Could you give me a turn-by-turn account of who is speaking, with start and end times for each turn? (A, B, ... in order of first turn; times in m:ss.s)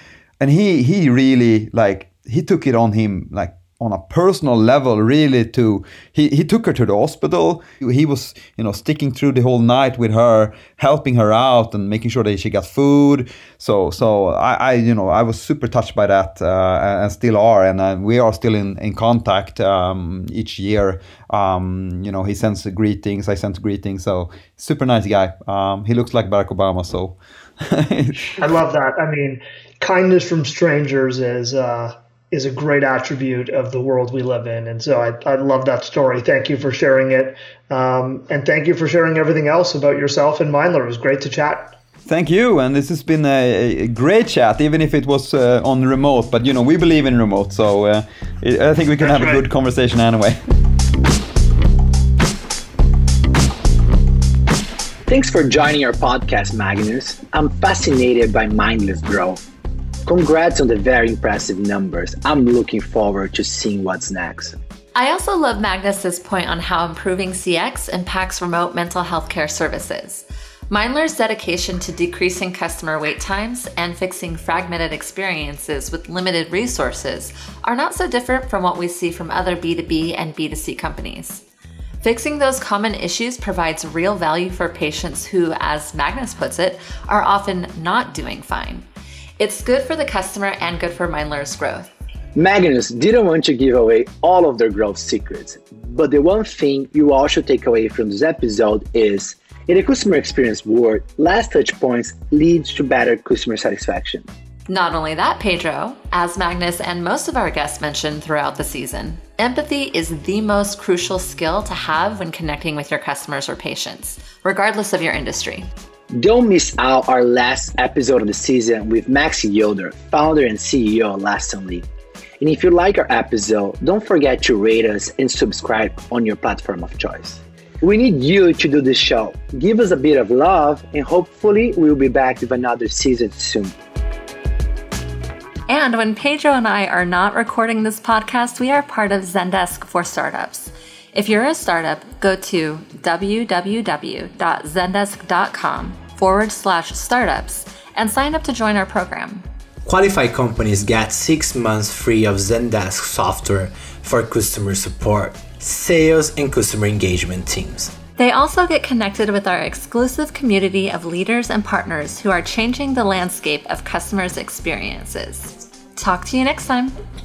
0:00.4-0:28.3 A
0:28.4-0:41.8 B
0:42.0-0:50.4 A
0:55.1-0:59.4 C
1:00.0-1:04.5 C
1:04.9-1:21.4 D
1:22.0-1:28.8 D
1:29.4-1:31.9 D
1:32.3-1:44.3 C
1:44.7-1:55.7 D
1:56.1-2:01.9 C
2:02.4-2:13.7 C
2:15.7-2:29.4 D
2:29.8-2:37.9 E
2:38.2-2:46.9 D